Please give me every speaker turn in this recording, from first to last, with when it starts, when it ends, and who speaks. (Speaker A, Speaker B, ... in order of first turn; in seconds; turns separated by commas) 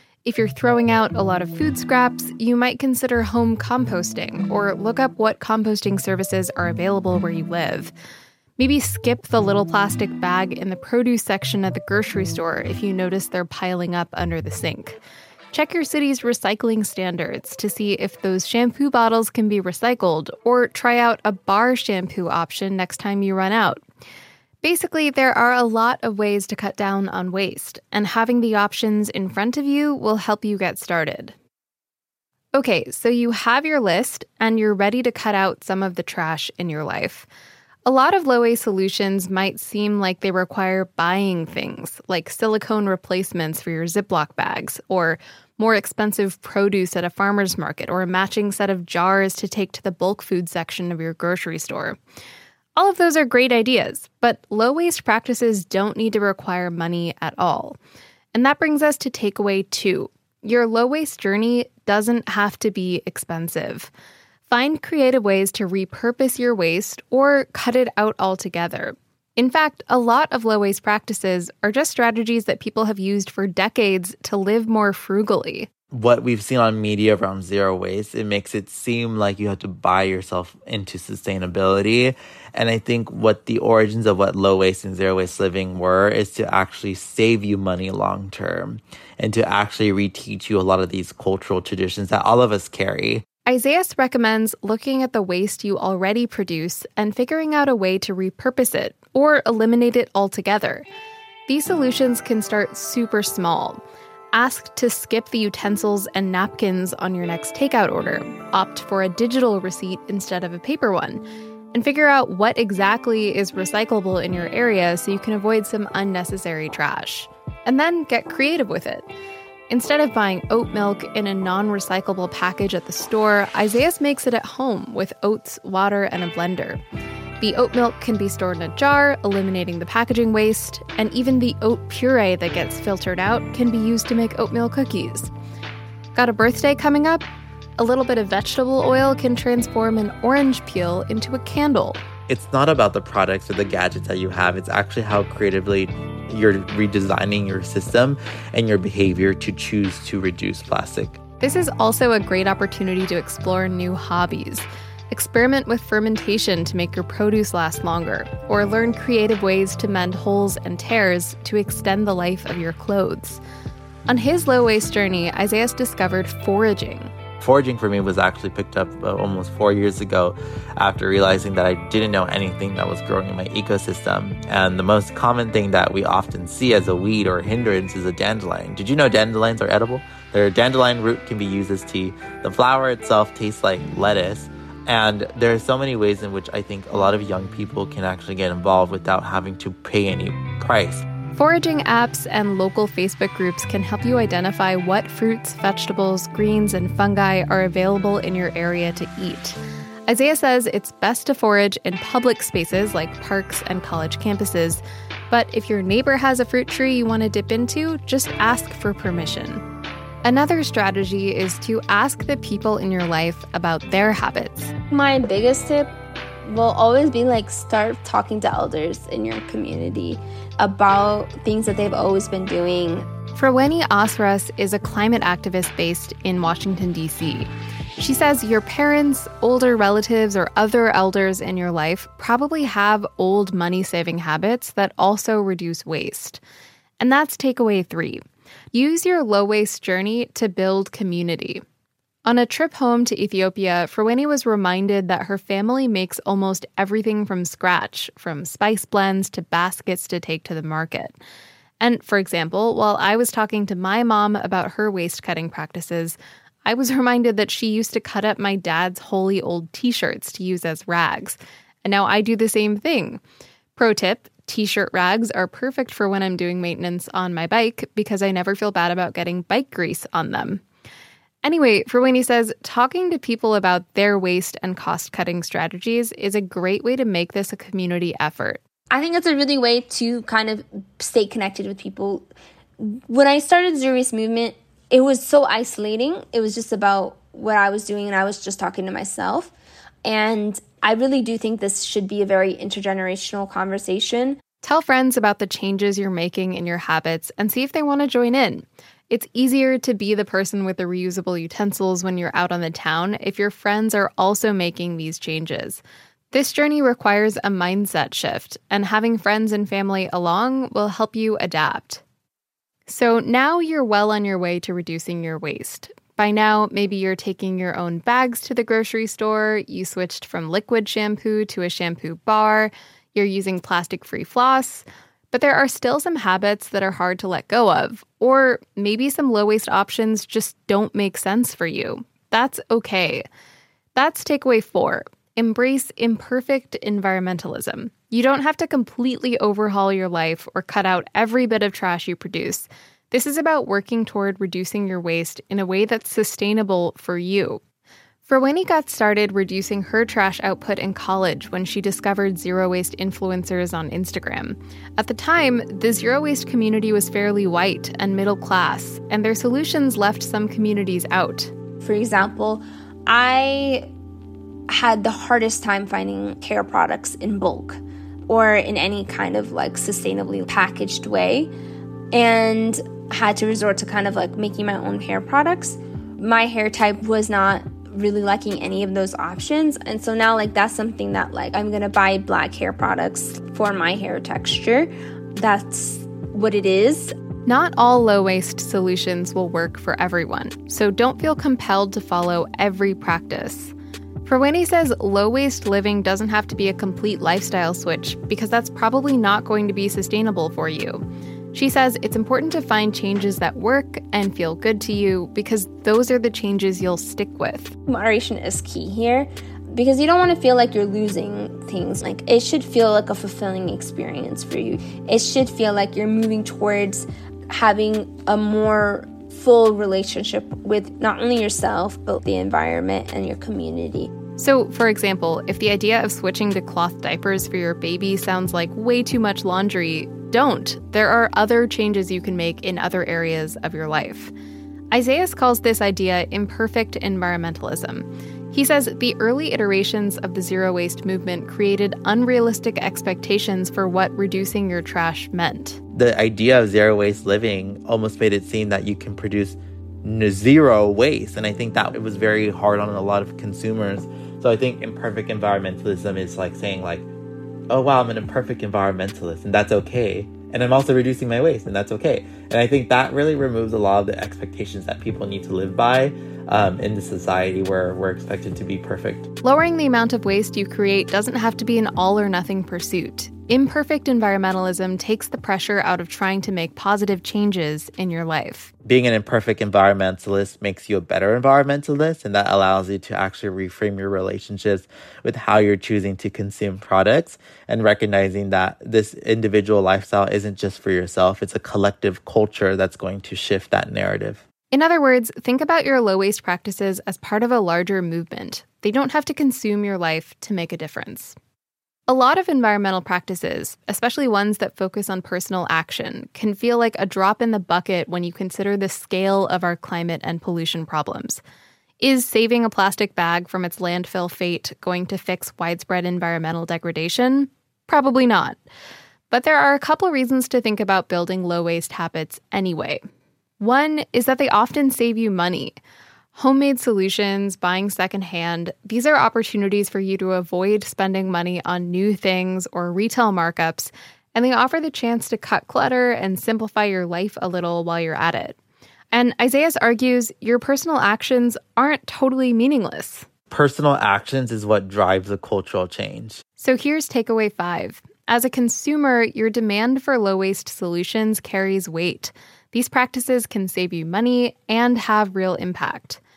Speaker A: 0.2-7.9, Speaker A: 8.6-15.0, Speaker A: 15.5-23.8, Speaker A: 24.6-31.3, Speaker A: 32.5-37.3, Speaker A: 37.9-52.0, Speaker A: 52.8-57.8, Speaker A: 58.3-63.9, Speaker A: 64.5-75.7, Speaker B: 75.9-93.2, Speaker A: 93.5-100.8, Speaker A: 101.5-103.8, Speaker A: 104.3-119.1, Speaker A: 119.7-126.8, Speaker A: 127.4-135.3, Speaker A: 136.1-137.2, Speaker A: 137.8-142.0, Speaker B: 142.3-151.2, Speaker A: 151.4-163.4, Speaker A: 164.1-167.1, Speaker B: 167.4-191.0, Speaker A: 191.3-209.6, Speaker A: 210.2-214.7, Speaker C: 214.9-223.1, Speaker A: 223.3-236.4, Speaker A: 237.0-241.6, Speaker A: 242.2-251.2, Speaker A: 251.8-263.2, Speaker A: 263.8-270.6, Speaker A: 271.4-278.6, Speaker C: 278.9-282.3, Speaker C: 282.8-289.5, Speaker C: 290.0-294.4, Speaker A: 294.6-312.0, Speaker A: 312.9-333.2, Speaker A: 333.9-347.6, Speaker A: 348.2-361.5, Speaker C: 361.8-363.9, Speaker C: 364.7-371.5, Speaker C: 372.1-387.1, Speaker A: 387.4-393.7, Speaker A: 394.2-407.7, Speaker C: 407.9-424.1, Speaker A: 424.4-434.3, Speaker A: 434.9-445.8, Speaker B: 445.9-457.1, Speaker B: 457.7-469.3, Speaker A: 469.4-478.7, Speaker B: 478.9-494.4, Speaker A: 494.7-501.4, Speaker A: 502.1-511.4, Speaker A: 512.0-518.6, Speaker A: 519.3-523.0, Speaker A: 523.6-525.8, Speaker A: 526.3-538.6, Speaker A: 539.1-543.3, Speaker B: 543.5-546.4, Speaker A: 546.6-556.2